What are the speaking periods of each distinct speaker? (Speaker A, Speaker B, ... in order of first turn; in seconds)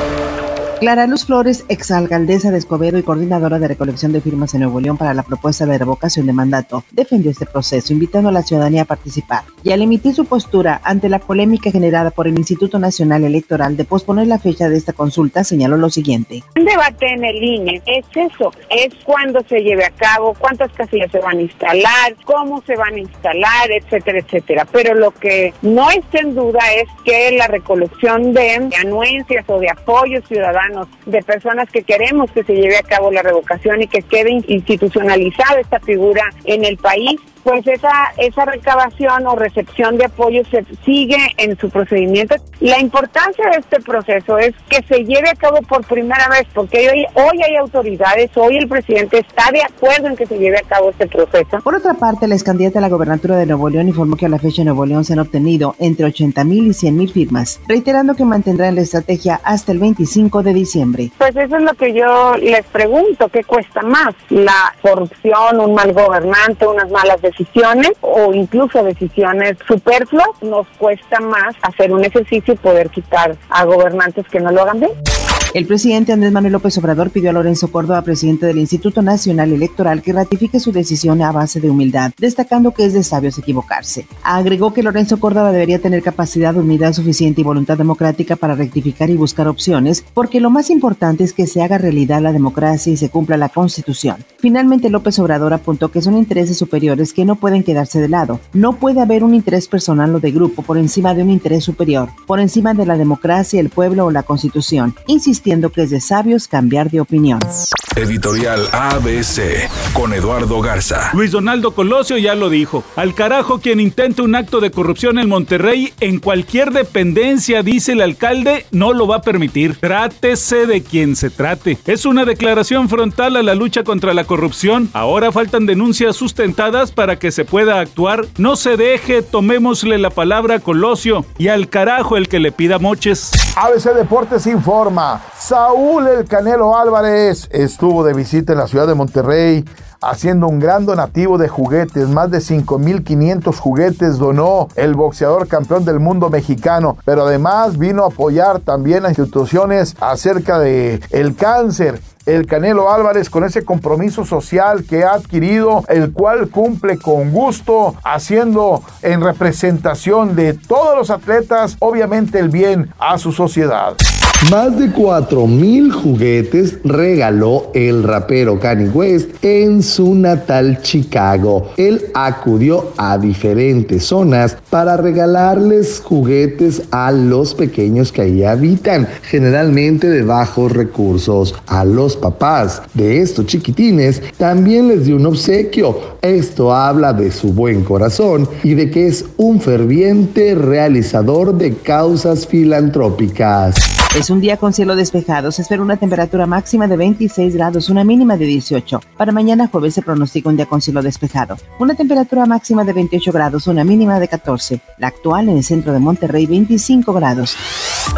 Speaker A: 0.8-16.4, 51.6-61.1, 75.5-107.5, 194.1-207.6
Speaker B: 16.6-51.6, 61.2-74.9
Speaker C: 108.0-111.1
Speaker D: 111.1-133.4
Speaker E: 133.6-164.0
Speaker F: 164.4-193.9